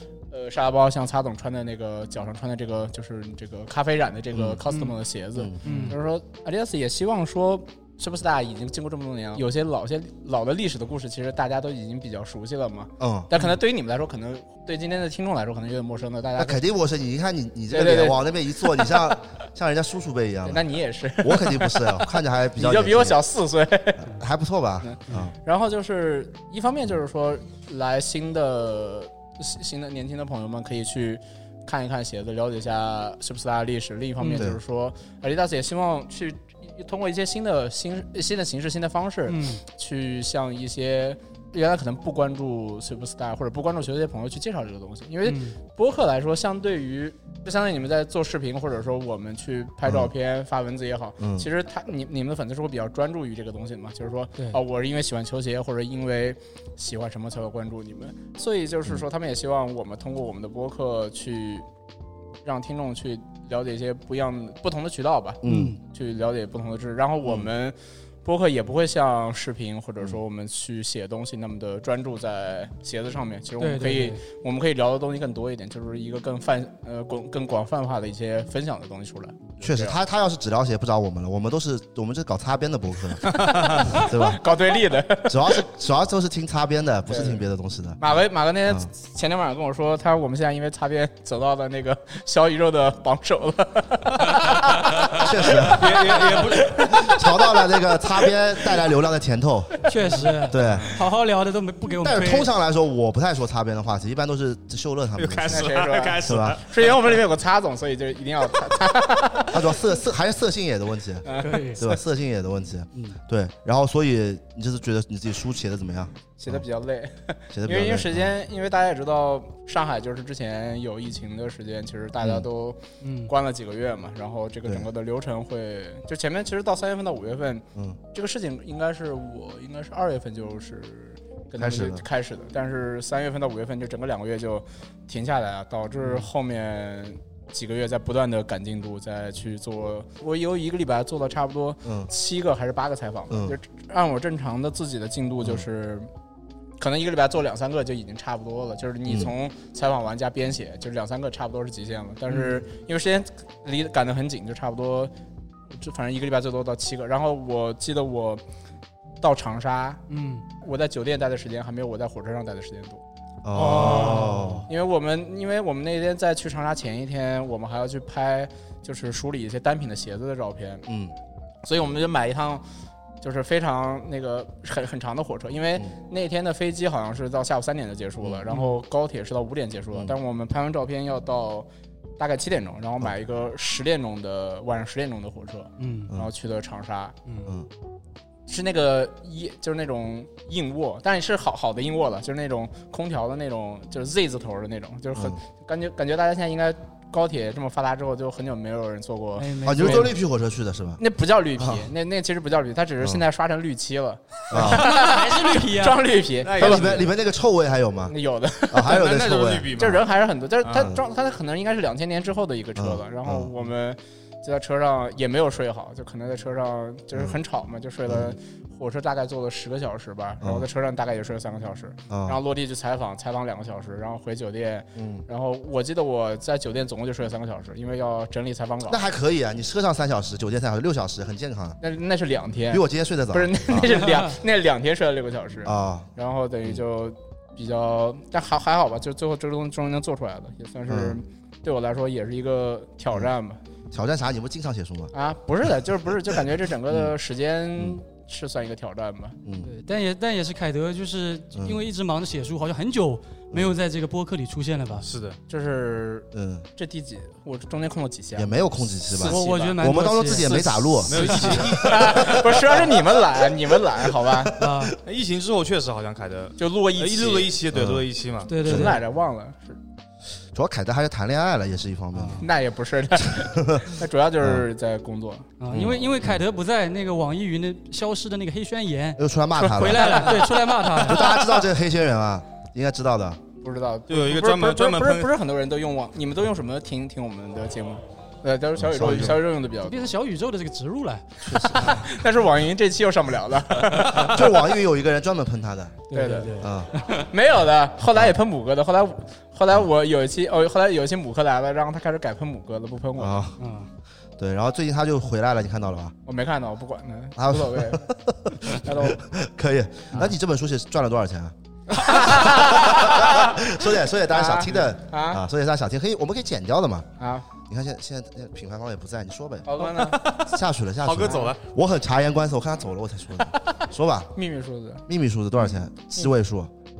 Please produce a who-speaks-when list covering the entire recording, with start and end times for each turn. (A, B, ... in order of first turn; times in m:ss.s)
0:00.3-0:16.6 A
0:04.3-0:04.6 B
0:04.7-0:04.9 C
0:05.4-0:06.0 B
0:05.6-0:06.0 C
0:13.0-0:13.3 B
0:16.4-0:23.2 B
0:17.7-0:19.2 A
0:20.4-0:24.1 A
0:24.0-0:25.3 B
0:24.8-1:01.6 A
0:34.2-0:34.4 C
0:39.3-0:39.6 C
0:45.2-0:45.6 C
0:49.8-0:50.1 B
0:51.2-0:51.5 B
1:02.4-1:20.0 A
1:05.4-1:05.7 B
1:05.4-1:05.8 C
1:07.2-1:07.5 B
1:13.6-1:14.2 C
1:19.6-1:24.4 B
1:23.3-1:25.6 A
1:25.2-1:28.0 B
1:27.1-1:27.4 A
1:28.0-1:37.6 A
1:35.2-1:39.8 B
1:35.6-1:36.9 D
1:39.9-1:42.5 C
1:40.5-1:41.0 B
1:42.0-1:46.6 B
1:45.2-1:47.0 D
1:45.5-1:49.6 A
1:49.5-1:56.6 B
1:51.3-1:52.0 A
1:51.4-1:51.8 C
1:56.4-2:26.1 A
1:57.5-1:58.3 B
2:02.2-2:02.5 B
2:03.0-2:03.3 C
2:11.6-2:12.0 B
2:16.0-2:16.3 B
2:21.8-2:22.1 B
2:23.3-2:23.6 B
2:26.8-2:35.1 A
2:29.0-2:29.3 B
2:32.3-2:32.6 C
2:35.7-2:38.4 A
2:39.2-2:40.0 A
2:40.1-2:40.4 C
2:40.6-2:43.0 A
2:43.4-2:44.7 B
2:43.5-2:44.6 C
2:43.6-2:50.8 A
2:50.9-2:51.1 B
2:51.6-2:52.6 A
2:53.2-3:07.2 A
2:58.2-2:58.5 B
3:05.8-3:06.1 C
3:08.5-3:20.1 A
3:15.1-3:15.4 B
3:19.4-3:20.1 C
3:19.6-3:21.0 B
3:21.0-3:26.9 A
3:21.6-3:21.9 B
3:24.5-3:24.9 B
3:24.6-3:26.0 C
3:26.4-3:27.1 D
3:26.6-3:28.1 B
3:28.1-3:29.0 A
3:28.7-3:29.8 B
3:28.8-3:30.0 D
3:29.8-3:49.0 A
3:30.6-3:30.9 D
3:30.7-3:31.0 B
3:32.8-3:33.5 B
3:38.1-3:38.3 B
3:40.4-3:40.7 B
3:42.1-3:42.4 B
3:45.0-3:45.2 B
3:48.9-3:51.8 B
3:51.8-4:03.6 A
3:52.7-3:54.0 B
3:53.9-3:54.3 C
3:55.6-3:56.1 B
4:00.9-4:01.2 B
4:03.9-4:05.1 B
4:05.1-4:09.4 A
4:06.9-4:07.2 B
4:07.8-4:08.0 B
4:09.4-4:09.7 B
4:09.6-4:15.0 C
4:11.5-4:11.8 B
4:15.0-4:15.4 D
4:15.5-4:19.8 A
4:16.3-4:16.7 B
4:18.3-4:22.6 B
4:19.3-4:21.8 C
4:21.1-4:22.3 D
4:21.2-4:24.6 A
4:24.6-4:24.9 C
4:25.0-4:28.5 D
4:26.6-4:27.5 A
4:27.7-4:28.0 B
4:28.5-4:29.0 C
4:28.6-4:29.0 B
4:28.6-4:29.8 A
4:30.5-4:32.5 B
4:32.1-4:32.4 C
4:32.4-4:35.5 A
4:33.3-4:33.8 B
4:34.4-4:34.6 B
4:35.6-4:39.2 C
4:35.7-4:36.4 B
4:39.2-4:43.4 B
4:39.6-4:41.6 A
4:39.7-4:41.3 C
4:43.6-4:50.1 A
4:44.1-4:45.3 D
4:48.8-4:49.4 B
4:49.8-4:51.3 C
4:51.4-4:52.1 B
4:51.7-4:54.6 A
4:54.0-4:56.0 B
4:56.1-4:57.2 C
4:56.1-4:56.5 A
4:56.6-4:56.9 B
4:57.2-5:03.4 A
5:03.2-5:03.6 B
5:03.6-5:03.9 C
5:04.4-5:06.1 B
5:06.2-5:08.0 A
5:07.4-5:17.1 B
5:08.7-5:09.2 A
5:11.9-5:13.6 A
5:14.3-5:15.4 A
5:17.2-5:17.4 A
5:17.7-5:19.8 B
5:19.6-5:20.2 A
5:19.9-5:21.6 D
5:20.4-5:24.3 B
5:24.3-5:25.0 A
5:25.1-5:26.7 B
5:25.6-5:26.3 A